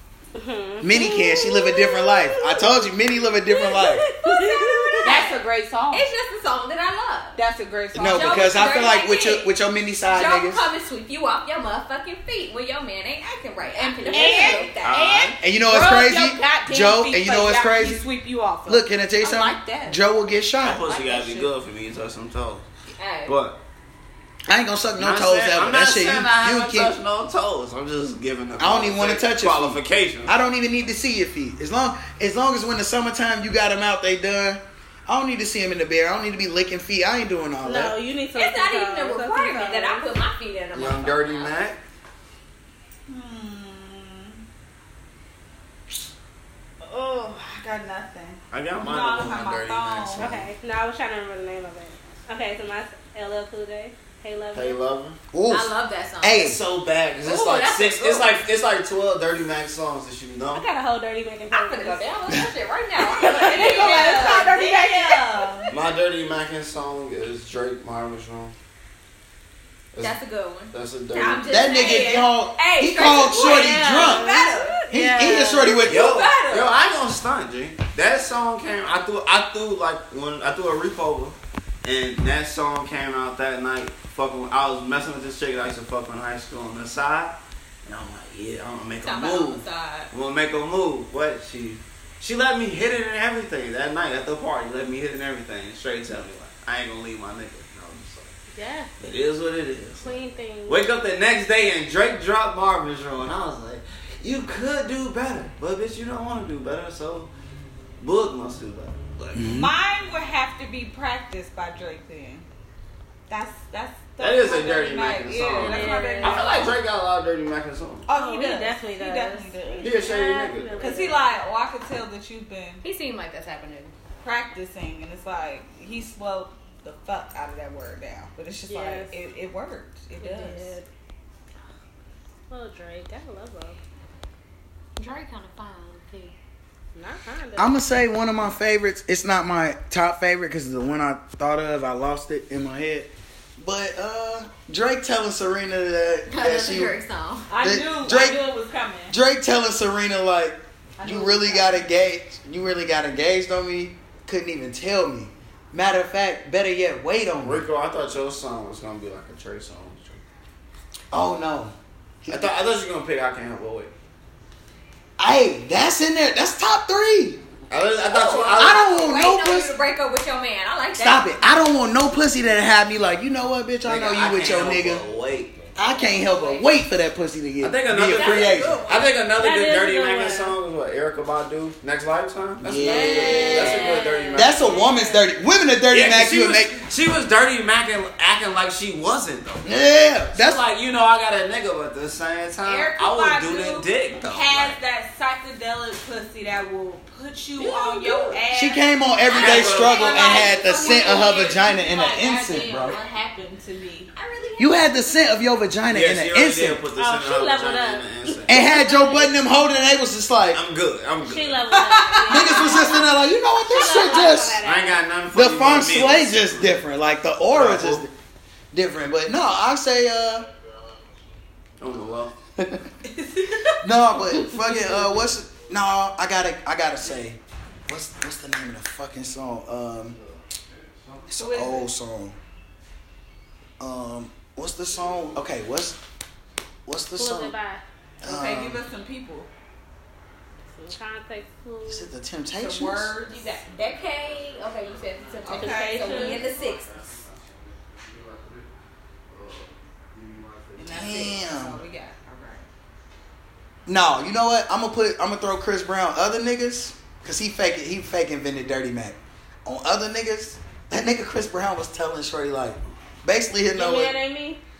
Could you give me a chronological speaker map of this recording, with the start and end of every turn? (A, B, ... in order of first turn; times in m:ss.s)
0:00.4-0:02.9 A
0:00.8-0:04.1 B
0:03.5-0:05.3 A
0:04.2-0:05.3 C
0:05.0-0:06.1 D
0:05.9-0:07.4 C
0:07.4-0:08.6 D
0:08.0-0:10.6 B
0:08.0-0:09.5 C
0:10.1-0:15.0 C
0:13.8-0:20.0 D
0:14.1-0:14.6 A
0:14.8-0:15.4 E
0:15.4-0:18.0 B
0:18.7-0:20.8 B
0:20.6-0:22.7 E
0:20.9-0:21.5 D
0:23.0-0:23.4 C
0:23.3-0:23.6 E
0:24.5-0:26.9 B
0:25.0-0:30.3 E
0:28.6-0:38.0 B
0:37.6-0:40.1 A
0:38.3-0:41.6 C
0:40.7-0:41.8 E
0:43.1-0:44.4 D
0:46.8-0:50.3 D
0:48.5-0:50.5 E
0:50.2-0:54.8 A
0:54.5-0:55.2 E
0:55.3-0:56.6 B
0:55.5-0:56.5 C
0:56.4-1:00.7 E
0:57.2-0:58.3 C
1:00.5-1:02.2 A
1:01.5-1:05.1 C
1:03.1-1:05.1 A
1:03.3-1:05.7 D
1:05.7-1:08.6 E
1:10.0-1:14.8 C
1:10.7-1:11.6 E
1:11.5-1:14.4 B
1:13.4-1:14.7 D
1:13.7-1:15.8 A
1:14.9-1:16.2 B
1:15.6-1:16.7 C
1:15.6-1:38.3 E
1:29.0-1:30.1 C
1:38.5-1:38.9 A
1:39.0-1:40.1 E
1:40.0-1:40.8 A
1:40.7-1:47.3 E
1:48.0-1:49.5 E
1:49.4-1:49.7 B
1:49.5-1:52.4 D
1:53.3-1:56.8 D
1:54.2-1:58.1 E
1:55.5-1:56.6 A
1:58.1-2:00.0 D
1:58.1-2:01.4 A
1:59.8-2:01.0 E
2:00.8-2:02.8 D
2:02.8-2:03.9 C
2:04.2-2:10.8 D
2:08.7-2:09.2 A
2:10.2-2:10.9 A
2:12.5-2:13.8 A
2:15.0-2:16.3 C
2:17.0-2:17.7 A
2:17.6-2:26.9 B
2:26.3-2:27.5 C
2:27.5-2:29.2 D
2:27.6-2:28.4 B
2:29.1-2:37.6 B
2:31.0-2:31.8 D
2:37.4-2:40.2 E
2:41.1-2:42.5 B
2:42.3-2:43.9 E
2:45.2-2:47.4 B
2:47.7-2:48.8 E
2:48.1-2:51.6 C
2:48.5-2:49.7 B
2:51.0-2:55.0 B
2:53.8-2:55.7 E
2:55.8-2:58.8 B
2:55.8-2:56.8 C
2:57.6-3:04.9 E
2:58.2-2:58.9 A
2:58.2-2:59.0 C
2:59.4-3:00.6 A
3:02.6-3:03.7 B
3:02.8-3:05.2 A
3:02.9-3:04.0 C
3:04.3-3:06.7 B
3:05.9-3:14.8 E
3:09.6-3:10.6 B
3:12.6-3:24.1 D
3:17.6-3:18.4 C
3:18.5-3:23.0 B
3:19.3-3:20.4 E
3:19.9-3:21.7 C
3:24.2-3:25.2 C
3:24.6-3:26.8 B
3:25.9-3:28.6 E
3:26.9-3:29.4 A
3:28.5-3:30.6 B
3:30.5-3:31.8 E
3:31.3-3:35.0 A
3:31.7-3:33.0 D
3:32.3-3:34.6 B
3:34.6-3:36.8 E
3:35.3-3:38.1 B
3:37.5-3:38.0 E
3:38.7-3:40.5 B
3:41.8-3:42.3 E
3:42.6-3:42.9 B
3:43.0-3:43.8 D
3:43.8-3:50.2 B
3:51.3-3:52.4 B
3:51.3-3:51.9 D
3:53.8-3:56.0 B
3:56.9-3:57.6 B
3:57.2-3:57.8 A
3:58.2-3:58.8 B
3:58.2-3:59.5 D
4:00.7-4:02.1 A
4:01.9-4:03.1 B
4:02.6-4:03.4 D
4:03.2-4:07.0 C
4:05.4-4:06.4 D
4:05.5-4:06.5 A
4:06.4-4:08.7 E
4:09.3-4:10.8 E
4:10.8-4:12.7 D
4:10.9-4:11.8 B
4:13.9-4:24.2 B
4:23.7-4:24.6 A